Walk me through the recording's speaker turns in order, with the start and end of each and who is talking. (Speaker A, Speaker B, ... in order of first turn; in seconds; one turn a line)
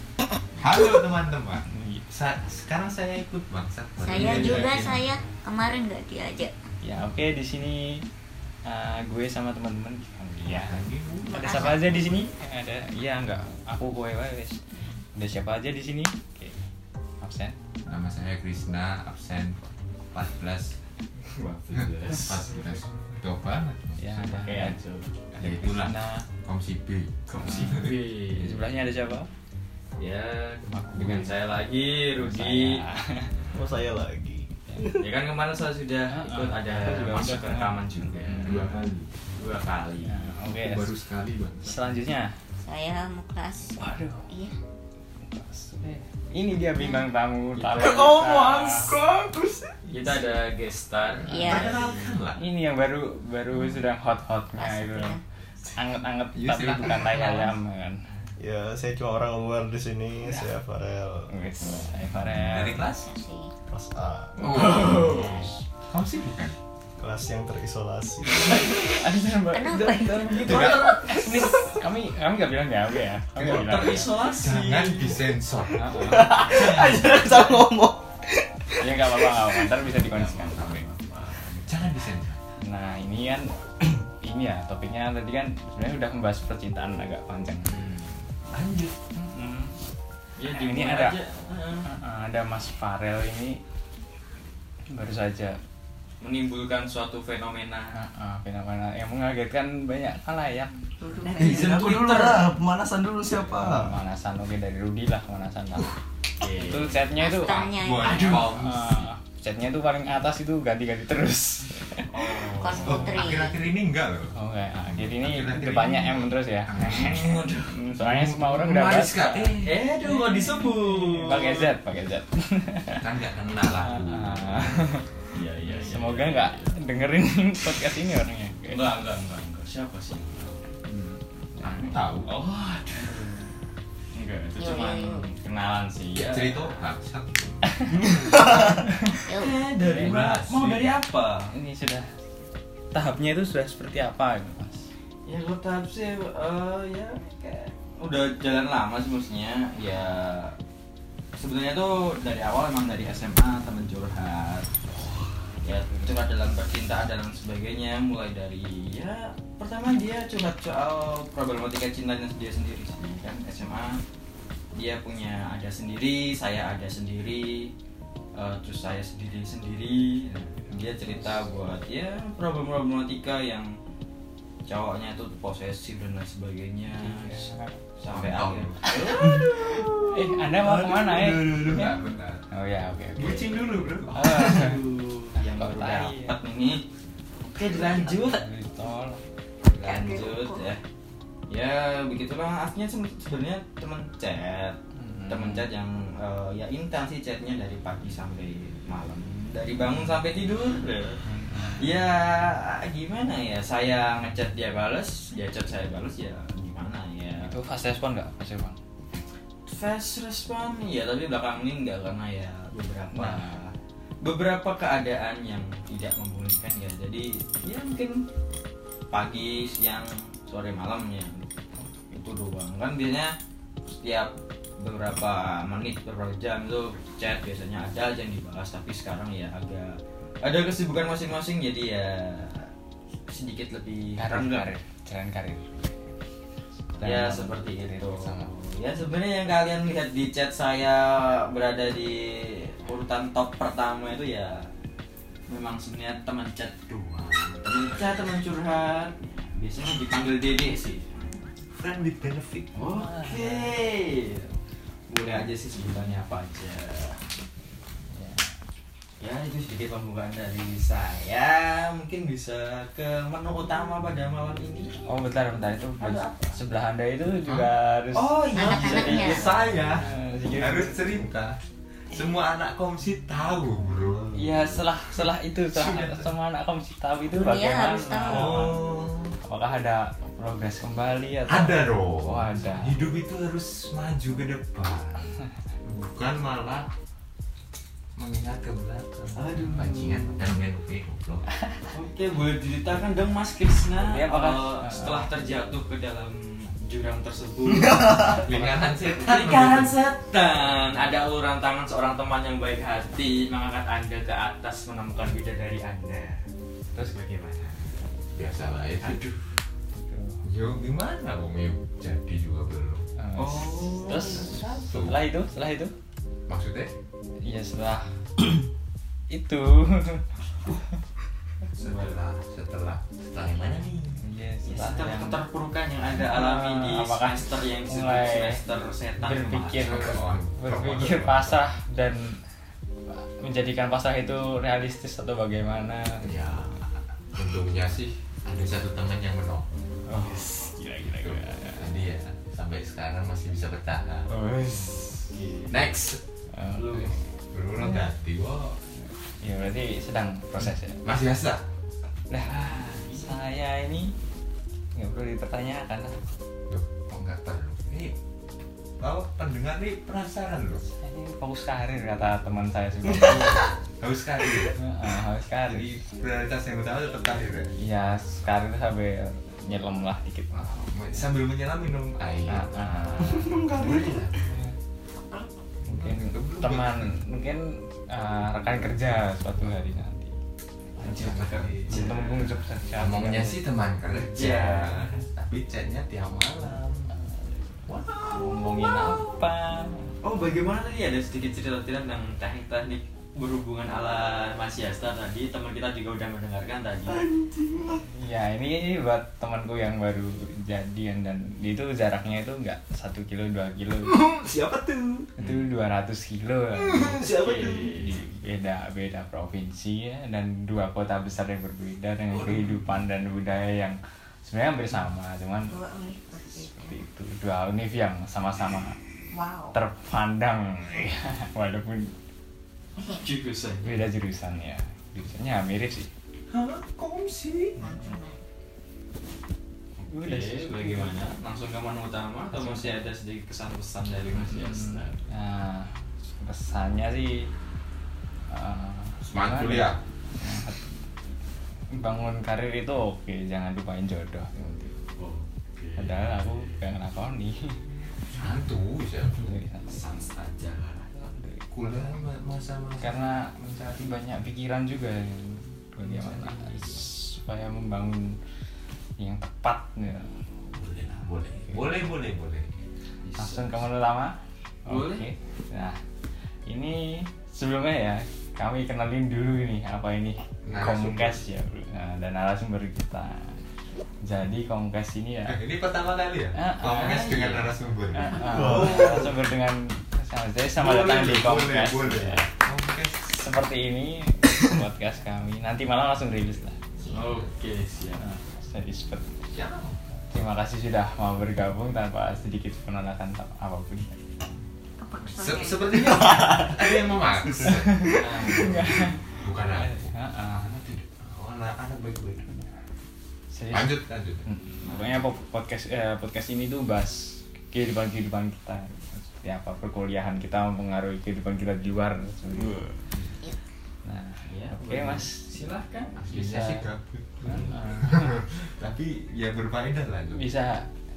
Speaker A: 0.5-5.1
Speaker B: 1.7-2.0
Speaker C: 4.0-6.5
Speaker B: 6.8-8.1
Speaker B: 8.6-14.6
Speaker A: 10.4-12.3
Speaker C: 11.2-12.0
Speaker B: 15.1-16.5
Speaker B: 17.2-17.6
Speaker A: 17.9-20.8
Speaker D: 21.2-22.7
Speaker A: 21.7-24.1
Speaker B: 24.0-24.8
Speaker D: 24.1-25.1
Speaker A: 25.3-28.0
Speaker B: 25.4-26.3
Speaker B: 27.3-29.3
Speaker D: 27.5-28.7
Speaker D: 30.0-32.8
Speaker B: 30.7-31.4
Speaker B: 32.1-33.4
Speaker E: 33.5-35.0
Speaker D: 34.9-40.2
Speaker B: 36.1-38.7
Speaker A: 38.4-39.1
Speaker B: 40.0-40.9
Speaker A: 40.5-41.8
Speaker B: 41.6-42.4
Speaker C: 42.6-44.6
Speaker B: 43.8-44.3
Speaker B: 45.2-48.9
Speaker D: 47.6-48.1
Speaker E: 47.8-49.8
Speaker D: 49.9-52.2
Speaker C: 51.2-52.0
Speaker A: 51.3-52.4
Speaker B: 52.3-55.2
Speaker C: 54.6-55.2
Speaker B: 55.7-58.0
Speaker A: 56.3-57.5
Speaker E: 58.4-61.3
Speaker B: 61.3-62.9
Speaker A: 61.6-63.1
Speaker C: 62.9-63.5
Speaker E: 63.7-64.8
Speaker A: 64.4-66.5
Speaker D: 64.7-65.3
Speaker E: 67.0-68.7
Speaker B: 68.3-74.1
Speaker C: 69.5-71.0
Speaker A: 70.3-71.3
Speaker A: 73.3-77.1
Speaker D: 73.4-75.3
Speaker B: 75.7-77.5
Speaker E: 75.9-79.8
Speaker B: 78.8-80.8
Speaker A: 79.9-80.7
Speaker D: 80.0-81.8
Speaker A: 81.3-82.4
Speaker B: 82.6-83.5
Speaker B: 84.1-87.9
Speaker D: 87.7-88.1
Speaker A: 88.5-88.9
Speaker B: 89.1-89.8
Speaker D: 90.4-91.8
Speaker B: 90.5-91.2
Speaker B: 91.8-93.6
Speaker B: 94.9-95.6
Speaker D: 96.2-98.0
Speaker B: 97.9-100.7
Speaker C: 101.0-101.7
Speaker D: 101.1-102.5
Speaker E: 101.3-104.0
Speaker B: 103.4-105.9
Speaker D: 106.4-107.0
Speaker B: 106.5-107.8
Speaker C: 107.1-108.5
Speaker A: 107.7-109.1
Speaker D: 108.0-108.6
Speaker B: 108.3-112.8
Speaker D: 112.1-113.1
Speaker C: 112.5-113.6
Speaker A: 112.8-119.8
Speaker B: 114.3-123.1
Speaker D: 116.8-117.8
Speaker D: 119.6-121.7
Speaker A: 122.9-124.6
Speaker B: 123.7-128.8
Speaker D: 125.3-126.8
Speaker D: 128.7-130.7
Speaker B: 130.9-132.0
Speaker A: 131.6-132.3
Speaker D: 132.2-133.3
Speaker B: 133.0-133.5
Speaker D: 134.1-136.9
Speaker C: 134.6-135.3
Speaker A: 136.1-137.8
Speaker B: 137.8-139.2
Speaker D: 138.0-141.5
Speaker E: 138.2-138.7
Speaker C: 139.2-139.5
Speaker B: 139.8-140.2
Speaker A: 139.8-140.9
Speaker B: 141.5-142.3
Speaker B: 142.9-144.9
Speaker D: 145.2-150.6
Speaker D: 151.4-154.7
Speaker D: 155.6-164.0
Speaker D: 164.7-167.7
Speaker D: 168.3-173.7
Speaker B: 170.7-171.4
Speaker D: 174.7-179.4
Speaker B: 176.9-177.7
Speaker A: 178.1-178.9
Speaker B: 178.9-181.9
Speaker E: 179.1-181.9
Speaker A: 181.3-182.4
Speaker B: 182.5-183.5
Speaker A: 183.2-184.7
Speaker B: 184.1-184.8
Speaker D: 184.1-186.8
Speaker B: 185.3-186.4
Speaker D: 187.4-188.4
Speaker B: 187.8-189.2
Speaker D: 189.7-190.8
Speaker C: 189.7-190.7
Speaker D: 191.5-207.5
Speaker B: 194.9-195.7
Speaker B: 201.2-201.8
Speaker B: 207.4-208.8
Speaker D: 209.7-218.2
Speaker B: 213.1-213.5
Speaker D: 219.1-221.4
Speaker D: 222.1-223.3
Speaker D: 223.8-232.7
Speaker D: 233.3-234.7
Speaker B: 234.2-235.9
Speaker B: 237.0-238.5
Speaker D: 237.0-244.7
Speaker D: 245.5-251.1
Speaker A: 251.8-252.7
Speaker D: 252.7-254.5
Speaker B: 252.9-253.8
Speaker D: 255.1-257.2
Speaker B: 255.9-256.1
Speaker B: 258.1-258.5
Speaker D: 259.2-265.0
Speaker B: 265.0-271.1
Speaker D: 266.0-266.6
Speaker A: 267.4-267.7
Speaker D: 268.1-270.1
Speaker C: 268.5-269.5
Speaker A: 269.3-271.6
Speaker A: 272.1-276.3
Speaker B: 274.3-278.8
Speaker C: 277.3-278.7
Speaker A: 278.2-279.4
Speaker B: 279.4-283.0
Speaker A: 281.5-286.9
Speaker A: 288.1-291.4
Speaker D: 289.3-290.3
Speaker D: 291.9-306.4
Speaker B: 294.0-295.3
Speaker E: 297.7-298.4
Speaker A: 298.2-299.9
Speaker D: 306.9-308.0
Speaker A: 308.3-309.5
Speaker B: 309.9-310.4
Speaker A: 310.4-313.0
Speaker B: 313.2-315.9
Speaker D: 313.4-314.8
Speaker A: 314.4-315.2
Speaker A: 316.5-316.9
Speaker B: 317.4-318.1
Speaker B: 319.3-320.2
Speaker A: 321.7-324.2
Speaker D: 321.8-322.2
Speaker B: 324.2-325.4
Speaker D: 324.6-330.2
Speaker B: 326.2-328.6
Speaker B: 329.2-332.4
Speaker A: 329.8-331.6
Speaker B: 333.1-336.5
Speaker A: 336.2-339.7
Speaker B: 340.1-342.0
Speaker D: 340.1-340.6
Speaker A: 341.0-344.3
Speaker B: 344.3-345.3
Speaker D: 344.6-346.0
Speaker A: 345.7-346.2
Speaker B: 346.5-347.2
Speaker D: 346.7-347.2
Speaker A: 347.5-348.8
Speaker B: 349.0-351.0
Speaker A: 351.0-351.6
Speaker B: 352.3-352.6
Speaker D: 352.4-353.4
Speaker B: 353.1-354.1
Speaker B: 354.9-356.2
Speaker A: 356.7-358.1
Speaker A: 359.0-360.8
Speaker B: 360.9-363.7
Speaker A: 363.1-364.8
Speaker B: 364.7-365.9
Speaker A: 365.6-367.7
Speaker B: 367.7-370.7
Speaker A: 370.5-374.4
Speaker B: 372.5-373.6
Speaker E: 373.2-374.4
Speaker A: 375.8-377.1
Speaker B: 375.9-380.3
Speaker B: 381.0-383.6
Speaker D: 381.0-382.5
Speaker A: 381.0-382.0
Speaker A: 382.9-387.1
Speaker D: 384.1-385.1
Speaker B: 384.3-384.9
Speaker A: 387.9-388.4
Speaker B: 388.3-390.1
Speaker D: 390.2-397.2
Speaker E: 397.1-398.0
Speaker B: 398.1-404.2
Speaker E: 404.4-405.3
Speaker B: 405.4-415.7
Speaker D: 407.2-408.2
Speaker C: 415.7-417.0
Speaker B: 416.5-419.0
Speaker C: 419.3-419.8
Speaker B: 419.7-422.1
Speaker C: 423.0-423.2
Speaker D: 423.1-424.0
Speaker B: 423.8-426.1
Speaker A: 426.5-427.8
Speaker C: 427.7-428.4
Speaker B: 430.0-431.2
Speaker D: 430.2-435.2
Speaker B: 432.5-433.0
Speaker B: 434.4-437.5
Speaker B: 438.5-440.9
Speaker A: 439.3-440.0
Speaker B: 441.9-444.5
Speaker A: 444.5-444.9
Speaker D: 445.1-446.8
Speaker B: 445.9-447.9
Speaker A: 448.3-449.6
Speaker B: 449.3-450.0
Speaker D: 449.9-451.1
Speaker B: 451.1-451.6
Speaker A: 451.7-454.1
Speaker B: 453.0-458.4
Speaker A: 456.1-456.9
Speaker B: 459.2-460.3
Speaker A: 460.7-462.7
Speaker D: 463.2-463.9
Speaker B: 463.4-466.0
Speaker D: 464.9-465.2
Speaker B: 466.6-473.6
Speaker A: 470.6-471.4
Speaker B: 474.2-475.6
Speaker A: 475.5-479.3
Speaker B: 476.5-477.5
Speaker D: 476.8-477.7
Speaker B: 478.1-482.5
Speaker E: 478.4-479.2
Speaker A: 480.8-483.2
Speaker B: 483.2-486.8
Speaker A: 487.0-487.4
Speaker D: 487.0-488.2
Speaker B: 488.2-489.4
Speaker A: 489.5-490.0
Speaker B: 490.3-494.2
Speaker C: 495.0-496.2
Speaker A: 495.2-502.4
Speaker E: 496.0-498.2
Speaker B: 497.6-500.8
Speaker D: 498.0-499.1
Speaker B: 503.5-513.0
Speaker A: 503.7-504.4
Speaker B: 514.0-515.4
Speaker D: 514.5-516.2
Speaker A: 516.2-520.5
Speaker B: 516.2-516.9
Speaker B: 517.4-518.5
Speaker B: 520.3-520.9